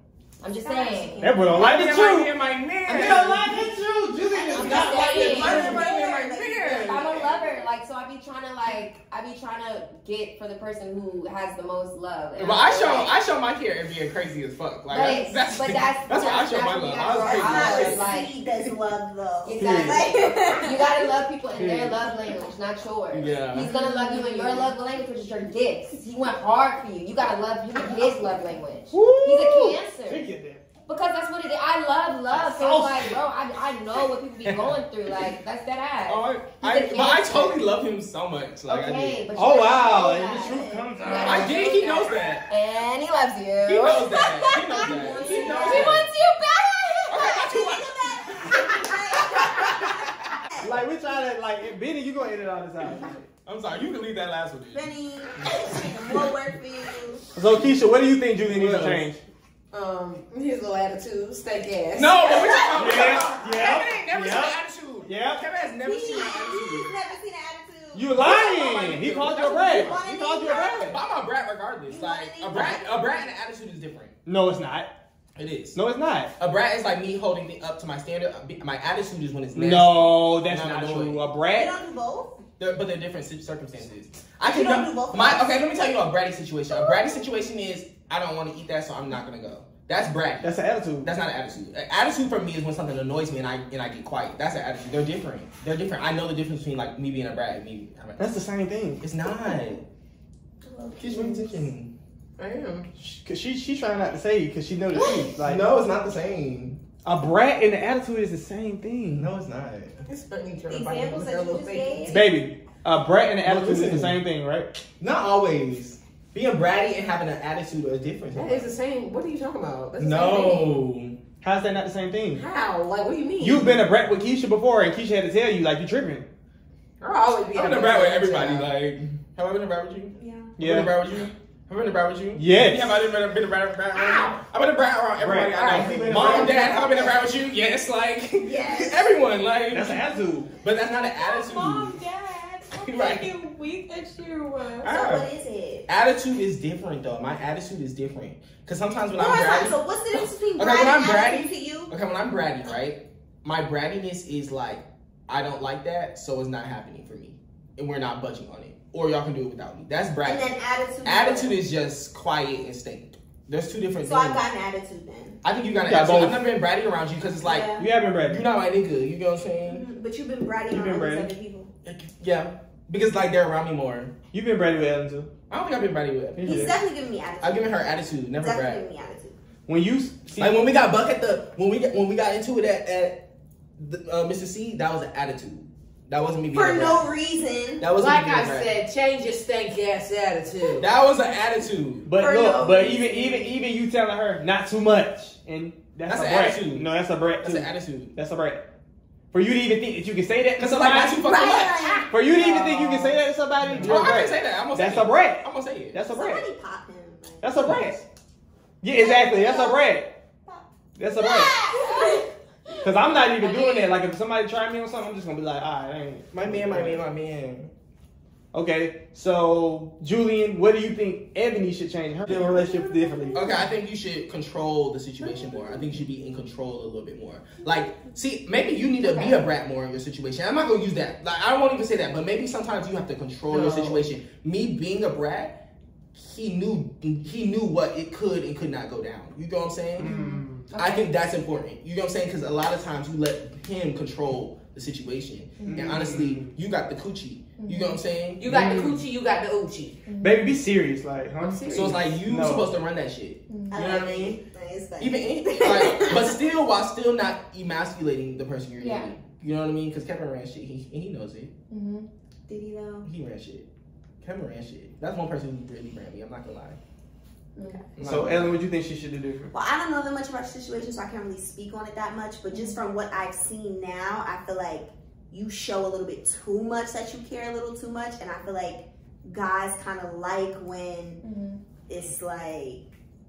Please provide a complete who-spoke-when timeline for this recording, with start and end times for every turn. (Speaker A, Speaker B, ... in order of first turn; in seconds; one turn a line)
Speaker A: 0.4-1.4
Speaker B: 0.5-1.7
Speaker C: 1.2-2.3
Speaker D: 1.4-3.6
Speaker A: 2.9-3.4
Speaker C: 2.9-5.8
Speaker B: 4.3-7.3
Speaker A: 4.5-5.8
Speaker D: 4.5-7.4
Speaker A: 6.7-13.1
Speaker D: 12.3-18.7
Speaker A: 14.9-18.3
Speaker B: 17.2-21.1
Speaker A: 19.4-30.2
Speaker C: 19.6-20.0
Speaker D: 21.6-21.9
Speaker D: 23.1-23.8
Speaker B: 23.6-24.7
Speaker C: 28.9-30.6
Speaker A: 30.9-37.7
Speaker C: 32.3-33.1
Speaker D: 34.4-34.7
Speaker D: 36.0-39.3
Speaker A: 38.7-47.4
Speaker C: 39.3-41.5
Speaker B: 39.7-41.4
Speaker D: 41.1-42.5
Speaker D: 43.6-46.1
Speaker B: 44.4-46.0
Speaker D: 47.1-50.3
Speaker B: 47.2-50.8
Speaker C: 50.6-53.2
Speaker D: 53.4-54.9
Speaker B: 54.7-57.2
Speaker C: 57.3-59.2
Speaker D: 58.5-59.0
Speaker E: 59.7-63.0
Speaker D: 61.9-66.9
Speaker B: 62.5-63.4
Speaker C: 62.8-65.4
Speaker B: 65.8-71.0
Speaker C: 67.9-71.0
Speaker D: 68.2-74.1
Speaker B: 71.9-73.3
Speaker C: 74.2-74.9
Speaker D: 75.3-75.8
Speaker C: 75.7-76.3
Speaker D: 76.4-81.2
Speaker C: 79.5-81.7
Speaker B: 81.4-82.4
Speaker D: 82.6-90.5
Speaker B: 84.4-85.6
Speaker B: 86.8-87.1
Speaker C: 90.4-91.1
Speaker D: 91.0-98.3
Speaker C: 98.2-99.0
Speaker D: 99.0-99.8
Speaker B: 100.6-101.3
Speaker D: 101.0-101.9
Speaker E: 102.4-102.9
Speaker C: 103.0-105.6
Speaker E: 104.9-105.3
Speaker D: 105.4-106.8
Speaker C: 107.0-109.3
Speaker D: 109.1-110.0
Speaker E: 110.0-112.2
Speaker B: 110.7-112.3
Speaker C: 112.1-114.8
Speaker D: 113.4-114.2
Speaker D: 115.0-118.7
Speaker E: 118.3-120.7
Speaker D: 120.0-121.2
Speaker C: 121.4-122.4
Speaker E: 122.3-123.7
Speaker C: 123.4-126.2
Speaker E: 127.0-128.6
Speaker D: 127.5-140.0
Speaker B: 130.1-130.5
Speaker C: 130.6-130.9
Speaker C: 132.3-132.9
Speaker E: 133.9-134.4
Speaker C: 135.2-136.7
Speaker E: 135.5-136.7
Speaker B: 135.9-137.2
Speaker B: 138.4-139.1
Speaker C: 139.7-140.5
Speaker D: 140.6-141.9
Speaker E: 141.2-144.9
Speaker D: 142.8-143.3
Speaker C: 144.8-145.3
Speaker B: 144.8-145.9
Speaker D: 145.9-160.5
Speaker B: 149.1-151.9
Speaker B: 160.2-161.6
Speaker D: 161.0-164.4
Speaker B: 164.0-165.4
Speaker D: 165.4-169.8
Speaker C: 165.8-166.4
Speaker B: 167.4-167.9
Speaker C: 167.8-168.4
Speaker B: 169.6-171.7
Speaker C: 170.7-171.3
Speaker D: 171.8-174.1
Speaker C: 174.3-175.3
Speaker D: 175.5-176.8
Speaker C: 176.3-176.7
Speaker B: 176.4-179.3
Speaker D: 177.4-178.8
Speaker C: 179.7-180.6
Speaker D: 180.4-183.2
Speaker D: 183.8-187.0
Speaker B: 186.5-187.8
Speaker D: 187.8-188.7
Speaker E: 187.9-190.8
Speaker D: 190.8-192.1
Speaker C: 192.0-198.6
Speaker B: 192.2-193.6
Speaker D: 196.1-196.8
Speaker D: 197.4-198.1
Speaker C: 199.3-201.3
Speaker D: 200.6-206.0
Speaker B: 201.2-202.1
Speaker C: 202.1-206.4
Speaker B: 206.1-208.0
Speaker C: 207.4-208.0
Speaker C: 208.8-210.1
Speaker B: 208.9-209.8
Speaker C: 210.9-211.6
Speaker B: 211.2-212.2
Speaker A: 211.6-212.2
Speaker C: 212.8-217.0
Speaker E: 213.4-213.7
Speaker D: 216.3-217.7
Speaker C: 218.5-223.5
Speaker B: 222.3-223.7
Speaker D: 223.3-235.6
Speaker B: 225.2-225.9
Speaker A: 229.0-229.4
Speaker E: 233.5-234.0
Speaker D: 236.1-240.1
Speaker C: 240.0-240.7
Speaker A: 240.0-241.1
Speaker D: 240.7-248.4
Speaker A: 245.6-246.0
Speaker C: 245.7-246.5
Speaker A: 247.6-248.0
Speaker E: 248.4-250.0
Speaker C: 248.5-249.0
Speaker A: 250.1-250.5
Speaker C: 250.2-252.7
Speaker E: 251.4-252.0
Speaker D: 251.7-254.4
Speaker A: 253.5-253.9
Speaker B: 253.7-256.4
Speaker D: 255.0-261.5
Speaker A: 258.8-259.1
Speaker A: 261.7-262.1
Speaker B: 262.5-263.1
Speaker D: 263.0-263.7
Speaker D: 264.2-266.8
Speaker A: 267.6-267.8
Speaker B: 267.6-267.9
Speaker D: 267.9-268.5
Speaker C: 268.0-269.5
Speaker B: 269.5-281.2
Speaker A: 272.5-272.8
Speaker A: 281.2-281.6
Speaker B: 281.9-282.8